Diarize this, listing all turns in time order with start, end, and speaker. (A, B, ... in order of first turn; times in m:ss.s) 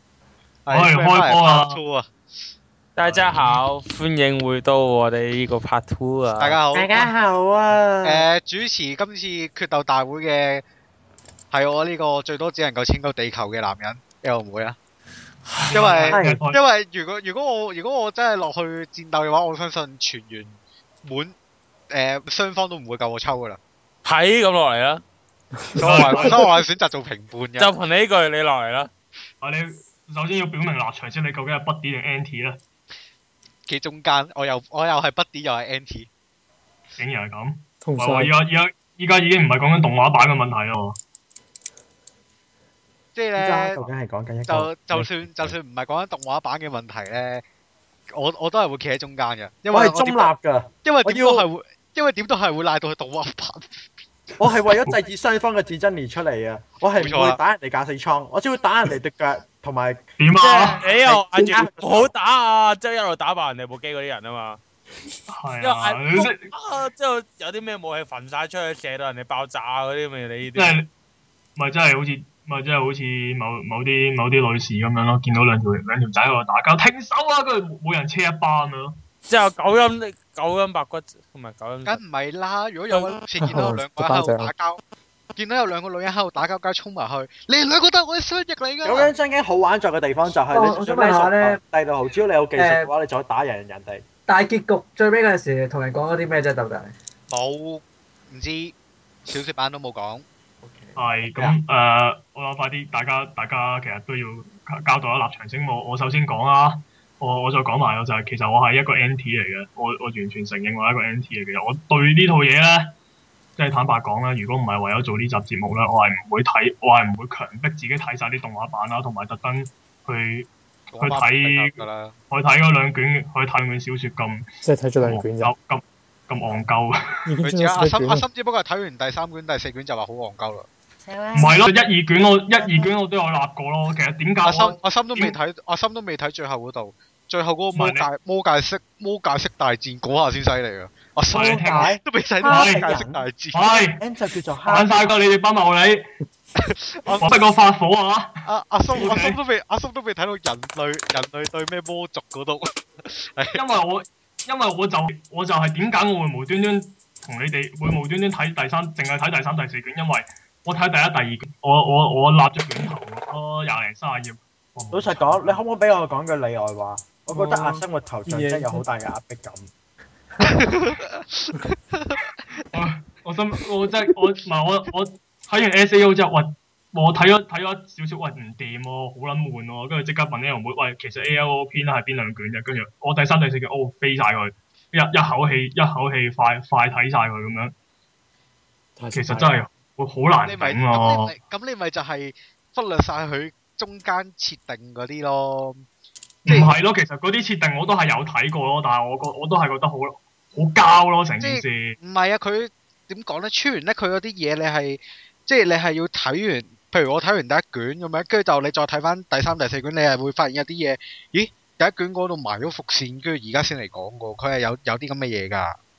0:00.7-0:02.1 A
0:00.7-0:01.8 B
0:03.0-0:06.6 C
0:03.0-0:03.6 A
0:06.4-0:07.1 A
0:06.7-0:08.3 D
0:08.0-0:10.6 A
0:11.5-0:14.8 A
0:15.5-0:15.8 C
0:15.6-0:16.6 B
0:15.7-0:21.4 A
0:16.1-0:16.4 D
0:21.9-0:23.6 A
0:24.0-0:25.0 C
0:25.8-0:27.7 A
0:25.8-0:26.4 B
0:27.6-0:28.9 C
0:29.4-0:32.6 B
0:33.7-0:36.1 A
0:37.0-0:41.0 B
0:37.8-0:38.3 E
0:43.2-0:43.8 A
0:43.4-0:45.5 D
0:44.5-0:47.4 A
0:48.1-0:53.9 A
0:49.7-0:51.4 D
0:54.4-1:00.0 D
0:57.0-0:57.4 A
1:00.2-1:00.8 B
1:00.4-1:04.6 C
1:01.0-1:02.1 D
1:05.3-1:06.5 B
1:05.6-1:10.8 C
1:10.6-1:10.9 B
1:11.6-1:19.0 B
1:19.3-1:22.0 C
1:21.8-1:24.8 A
1:23.4-1:24.5 E
1:25.4-1:29.1 A
1:28.8-1:34.0 D
1:30.5-1:31.6 F
1:32.6-1:32.9 F
1:34.3-1:36.9 F
1:37.3-1:38.7 A
1:39.3-1:40.2 A
1:40.6-1:41.0 F
1:41.0-1:53.0 B
1:53.6-2:04.5 B
2:00.9-2:02.2 A
2:04.6-2:05.5 E
2:05.0-2:07.3 B
2:07.3-2:08.3 E
2:07.4-2:10.7 A
2:11.0-2:11.7 D
2:11.3-2:15.4 B
2:14.4-2:23.8 A
2:17.7-2:18.1 B
2:21.3-2:21.9 B
2:21.7-2:23.3 D
2:22.4-2:22.9 B
2:23.5-2:24.0 B
2:24.0-2:25.0 D
2:24.6-2:26.1 B
2:26.6-2:27.3 A
2:27.2-2:28.4 B
2:28.4-2:33.6 A
2:28.9-2:29.4 B
2:33.5-2:45.6 B
2:44.9-2:49.7 D
2:47.3-2:48.8 E
2:50.4-2:52.2 A
2:52.7-3:07.7 B
3:09.0-3:09.5 E
3:09.1-3:11.3 B
3:10.4-3:15.8 A
3:16.5-3:16.7 A
3:16.5-3:22.0 B
3:21.4-3:35.8 A